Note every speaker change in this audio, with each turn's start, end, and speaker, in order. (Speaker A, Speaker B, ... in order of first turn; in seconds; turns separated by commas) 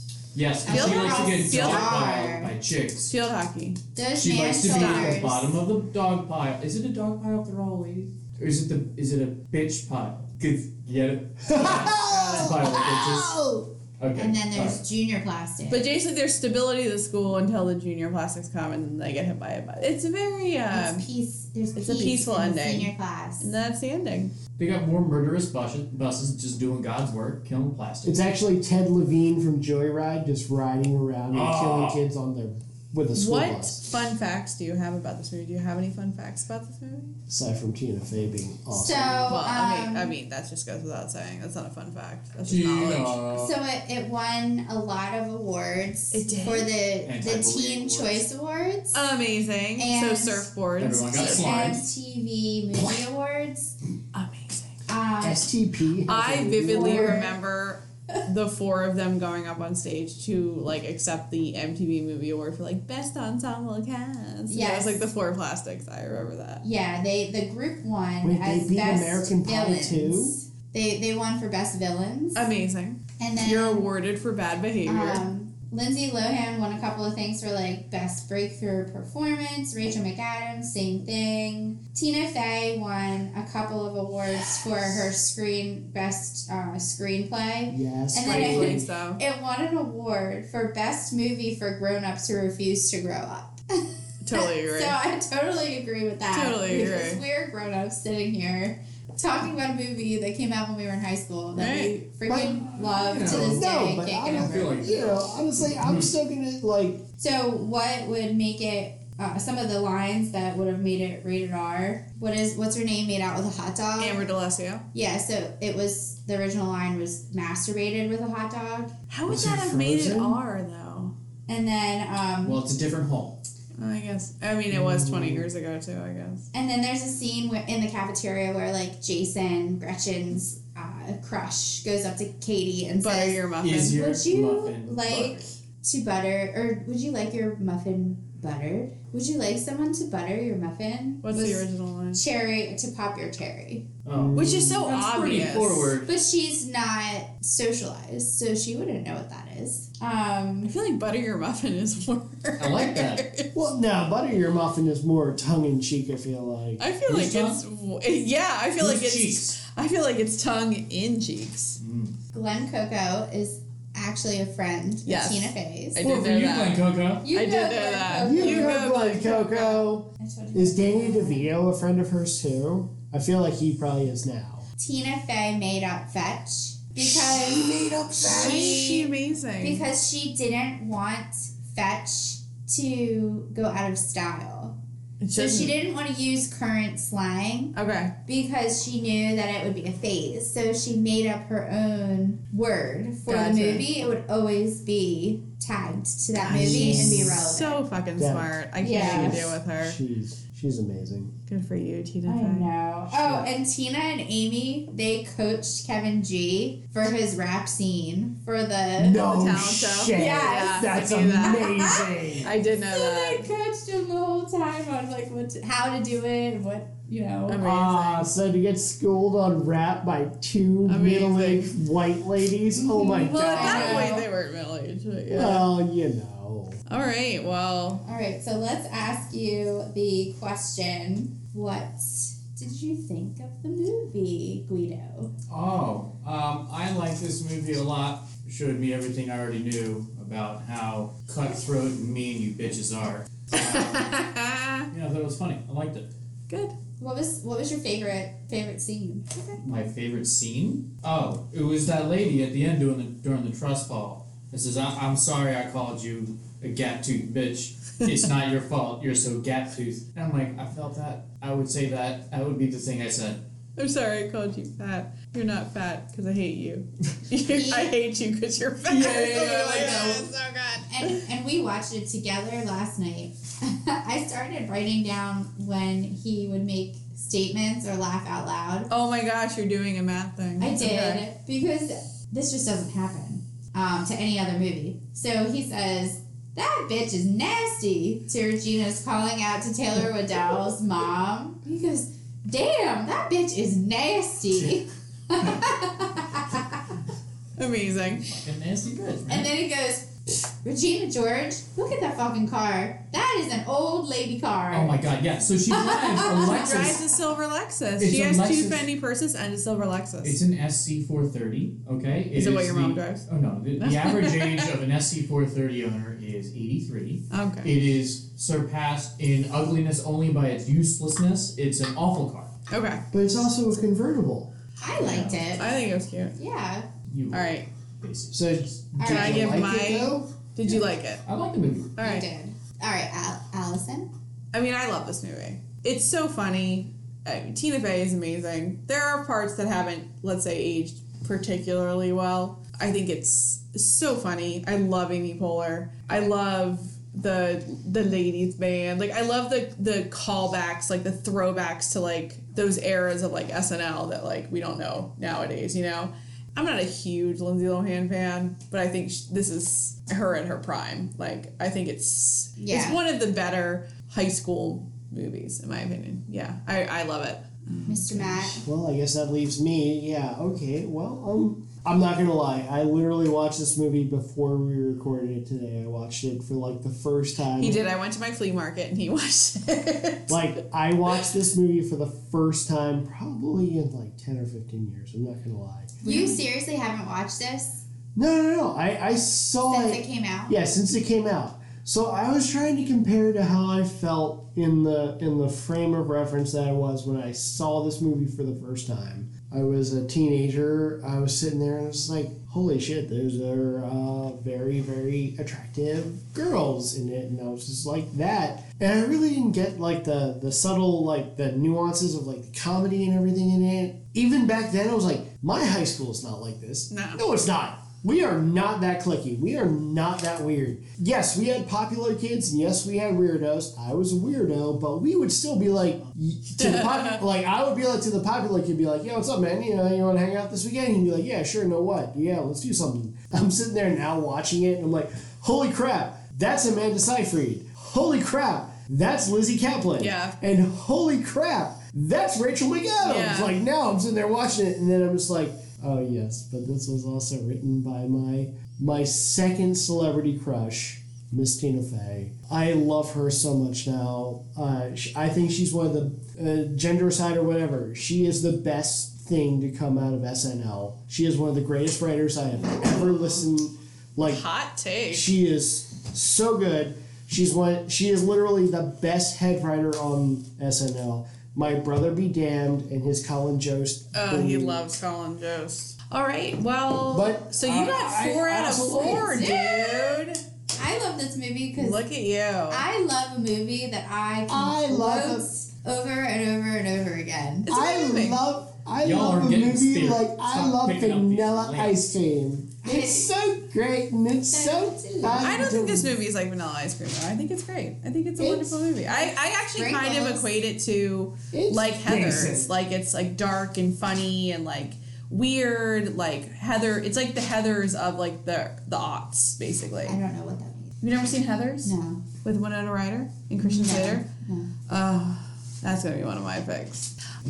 Speaker A: 0.3-3.1, Speaker B: 0.7-2.2, Speaker C: 0.7-2.5, Speaker B: 3.1-3.8, Speaker C: 4.0-5.6, Speaker A: 4.2-13.4, Speaker B: 4.7-5.3, Speaker D: 11.5-13.7, Speaker B: 12.1-12.5, Speaker A: 14.0-14.8, Speaker C: 14.2-15.9, Speaker B: 15.7-21.1, Speaker C: 20.7-23.5, Speaker B: 21.8-24.4, Speaker A: 24.6-28.2, Speaker D: 28.0-33.8, Speaker A: 31.3-32.0, Speaker B: 33.1-37.2, Speaker D: 37.3-39.4, Speaker C: 38.7-40.2, Speaker B: 39.3-43.2, Speaker A: 42.5-43.5, Speaker C: 43.3-49.0, Speaker B: 46.1-46.7, Speaker A: 47.0-48.3, Speaker B: 48.9-51.5, Speaker C: 49.8-50.5, Speaker A: 50.8-51.8, Speaker C: 51.1-53.8, Speaker B: 54.1-54.8, Speaker C: 54.9-55.5, Speaker D: 55.2-57.3, Speaker B: 56.1-66.6, Speaker C: 56.4-57.4, Speaker C: 64.5-65.0, Speaker C: 66.6-72.4, Speaker D: 68.2-70.4, Speaker B: 72.3-75.2, Speaker C: 73.2-73.9, Speaker C: 74.9-104.8, Speaker D: 87.7-88.8, Speaker B: 88.2-89.2, Speaker B: 94.2-95.0, Speaker B: 96.3-97.2, Speaker B: 101.5-102.0, Speaker D: 102.3-107.0, Speaker A: 102.7-106.1, Speaker C: 107.2-114.3, Speaker B: 114.0-114.8, Speaker C: 114.9-118.9, Speaker B: 119.1-121.2, Speaker D: 119.3-120.4, Speaker C: 121.5-122.6, Speaker A: 122.4-123.4, Speaker B: 123.8-126.5, Speaker D: 124.7-125.5, Speaker C: 126.5-143.9, Speaker B: 133.0-134.0, Speaker A: 133.6-135.5, Speaker B: 141.2-142.2, Speaker A: 144.1-146.1, Speaker D: 144.1-144.8, Speaker B: 144.3-145.9, Speaker C: 146.1-150.7, Speaker B: 150.6-153.5, Speaker A: 152.6-153.2, Speaker D: 153.6-156.8, Speaker B: 156.8-161.8, Speaker A: 157.1-157.6, Speaker A: 158.8-159.6, Speaker A: 161.8-162.2, Speaker C: 162.3-166.0, Speaker B: 165.1-169.6, Speaker A: 166.0-167.3, Speaker C: 167.2-171.5, Speaker D: 168.2-174.7, Speaker C: 174.8-177.9, Speaker D: 177.0-179.1, Speaker B: 178.2-179.9, Speaker C: 179.6-184.8, Speaker B: 185.2-185.8, Speaker C: 185.4-187.7, Speaker B: 187.7-188.1, Speaker C: 188.2-197.8, Speaker B: 193.3-193.8, Speaker B: 196.4-200.0, Speaker D: 196.5-197.4, Speaker D: 198.2-201.3, Speaker C: 198.8-199.5, Speaker B: 201.5-202.7, Speaker C: 202.3-209.2, Speaker A: 203.2-203.4, Speaker D: 209.0-212.5, Speaker B: 209.2-211.9, Speaker C: 210.1-210.8, Speaker C: 211.4-217.6, Speaker B: 212.4-213.5, Speaker B: 217.5-218.3, Speaker D: 217.6-224.1, Speaker B: 220.9-221.7, Speaker C: 222.8-224.3, Speaker B: 223.1-225.7, Speaker D: 225.3-226.8, Speaker B: 226.9-228.0, Speaker C: 228.0-235.3, Speaker A: 235.5-244.2, Speaker B: 243.5-244.9, Speaker A: 244.9-246.1, Speaker B: 246.5-246.8, Speaker C: 247.0-249.4, Speaker A: 249.6-263.4, Speaker B: 263.8-271.2, Speaker C: 267.5-267.9, Speaker A: 268.9-269.9, Speaker C: 269.0-278.9, Speaker B: 278.9-281.3, Speaker C: 280.6-296.8, Speaker B: 297.6-298.3, Speaker A: 298.2-299.5, Speaker C: 299.3-305.0, Speaker A: 304.7-307.0, Speaker C: 305.7-307.0, Speaker B: 306.5-310.4, Speaker A: 308.0-308.9, Speaker A: 310.2-322.5, Speaker B: 312.4-313.3, Speaker B: 313.8-314.7, Speaker B: 317.3-317.7, Speaker B: 322.7-323.1, Speaker D: 323.1-324.5, Speaker C: 324.8-325.8, Speaker A: 324.9-325.6, Speaker B: 325.6-326.4, Speaker C: 326.4-326.9, Speaker A: 327.1-329.4, Speaker B: 327.3-327.7, Speaker D: 328.3-330.3, Speaker C: 329.0-329.5, Speaker B: 329.0-331.2, Speaker A: 331.2-332.0, Speaker B: 332.0-332.3, Speaker C: 332.0-334.1, Speaker B: 334.5-368.6, Speaker C: 362.6-363.0, Speaker C: 367.9-368.6, Speaker D: 368.6-377.8, Speaker B: 377.6-380.5, Speaker D: 380.3-386.0, Speaker B: 386.0-386.4, Speaker C: 386.0-387.8, Speaker D: 388.1-464.4, Speaker C: 389.7-390.6, Speaker B: 416.9-417.2, Speaker B: 426.6-427.2, Speaker B: 440.0-440.4, Speaker B: 443.0-443.6, Speaker B: 462.9-463.4, Speaker B: 464.2-465.3, Speaker D: 465.1-474.9, Speaker B: 474.1-480.4, Speaker D: 477.1-479.6, Speaker C: 479.1-480.2, Speaker C: 480.8-482.0, Speaker B: 481.8-482.9, Speaker C: 482.7-487.7, Speaker D: 484.5-485.5, Speaker B: 487.7-488.4, Speaker D: 487.7-496.1, Speaker A: 489.0-492.1, Speaker C: 492.8-493.3, Speaker C: 494.5-495.7, Speaker B: 495.4-510.2, Speaker D: 498.4-498.9, Speaker C: 499.1-500.6, Speaker D: 501.5-502.7, Speaker C: 510.1-510.9, Speaker B: 511.0-514.3, Speaker C: 511.8-512.2, Speaker C: 513.6-514.7, Speaker B: 514.9-517.1